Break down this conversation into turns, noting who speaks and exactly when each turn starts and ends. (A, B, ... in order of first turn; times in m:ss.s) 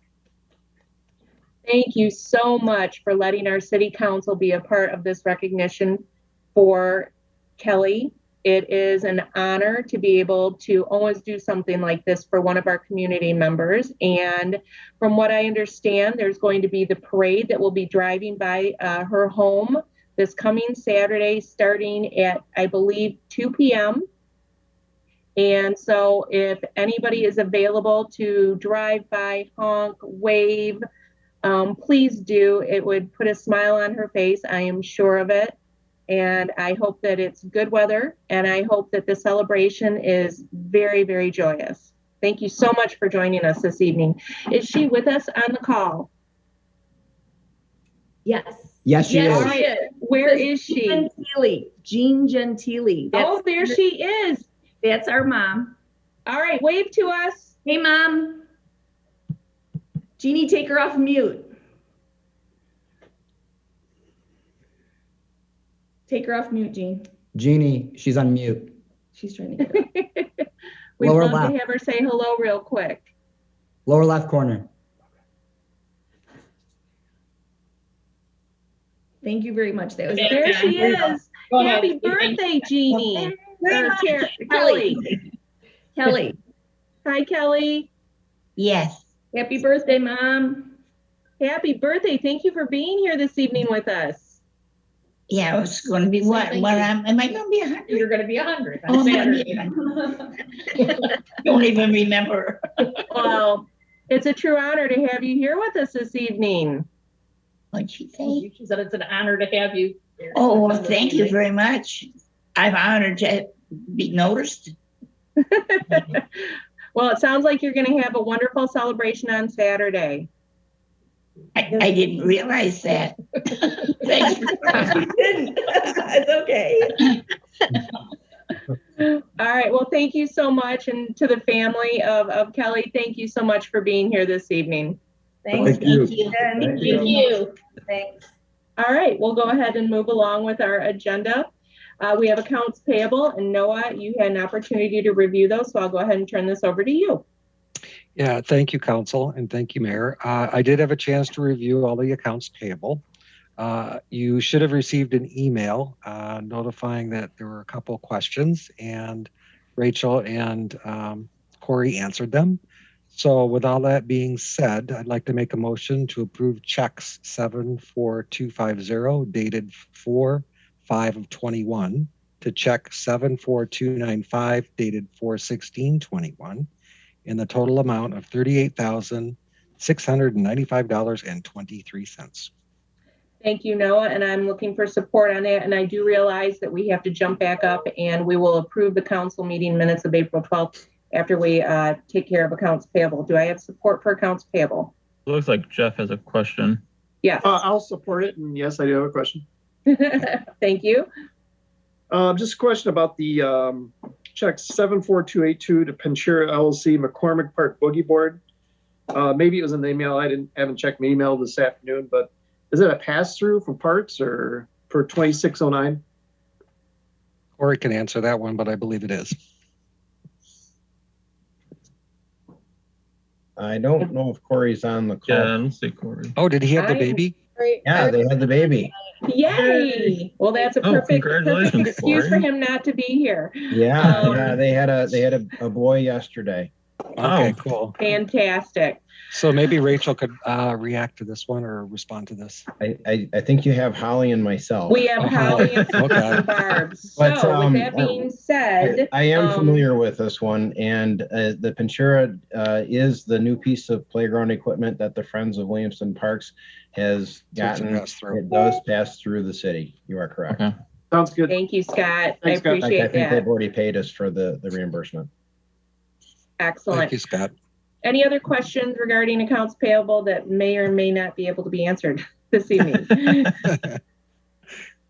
0:01.6-0:06.0 A
0:06.6-0:24.1 A
0:25.4-0:30.8 A
0:31.4-0:35.6 A
0:36.1-0:46.1 A
0:48.2-0:53.7 B
0:48.8-0:49.6 C
0:49.3-0:51.1 A
0:53.1-0:54.5 A
0:54.8-0:55.8 B
0:56.3-0:57.6 A
0:57.6-0:58.4 B
1:00.2-1:01.5 B
1:06.1-1:07.0 B
1:07.3-1:08.7 C
1:09.1-1:09.8 B
1:09.6-1:10.4 A
1:11.0-1:13.1 A
1:11.0-1:11.6 C
1:13.9-1:14.7 C
1:19.2-1:21.0 B
1:20.1-1:22.4 D
1:20.3-1:25.0 A
1:23.7-1:24.1 E
1:24.4-1:25.0 B
1:26.0-1:26.4 B
1:27.0-1:27.9 A
1:28.6-1:29.1 E
1:29.3-1:30.7 B
1:31.4-1:34.4 A
1:35.3-1:38.1 E
1:36.2-1:36.9 D
1:37.9-1:40.2 D
1:38.9-1:39.8 E
1:40.8-1:41.1 D
1:41.4-1:42.6 E
1:43.1-1:46.9 A
1:47.7-1:48.5 E
1:48.2-1:51.4 D
1:50.3-1:54.8 E
1:55.4-1:56.2 A
1:56.9-2:00.3 A
2:01.6-2:05.1 E
2:04.2-2:07.1 B
2:09.0-2:15.0 A
2:15.4-2:18.2 B
2:17.0-2:17.5 D
2:18.8-2:27.2 A
2:28.2-2:33.0 F
2:33.6-2:42.6 F
2:43.1-2:56.7 F
2:57.2-3:02.5 F
3:03.4-3:14.9 A
3:15.3-3:16.8 G
3:17.2-3:17.6 A
3:17.4-3:19.5 H
3:19.9-3:21.1 A
3:22.1-3:28.4 H
3:29.1-3:36.0 H
3:37.6-3:39.4 F
3:43.6-3:45.5 I
3:45.3-3:46.3 G
3:46.4-3:47.4 F
3:46.8-3:47.2 A
3:47.8-3:48.9 I
3:49.2-3:54.6 A
3:50.8-3:52.4 G
3:53.7-3:56.7 I
3:54.0-3:54.5 F
3:57.2-3:58.0 F
3:57.2-3:57.6 G
3:58.0-3:59.0 A
3:59.3-4:02.7 F
4:02.8-4:05.0 I
4:04.9-4:09.8 A
4:05.2-4:06.5 F
4:07.2-4:08.3 I
4:08.8-4:20.6 I
4:17.6-4:18.4 F
4:21.1-4:21.6 H
4:21.5-4:23.4 A
4:22.4-4:22.8 H
4:22.8-4:25.3 I
4:26.6-4:27.2 A
4:26.9-4:27.5 F
4:28.0-4:33.5 A
4:33.6-4:33.8 F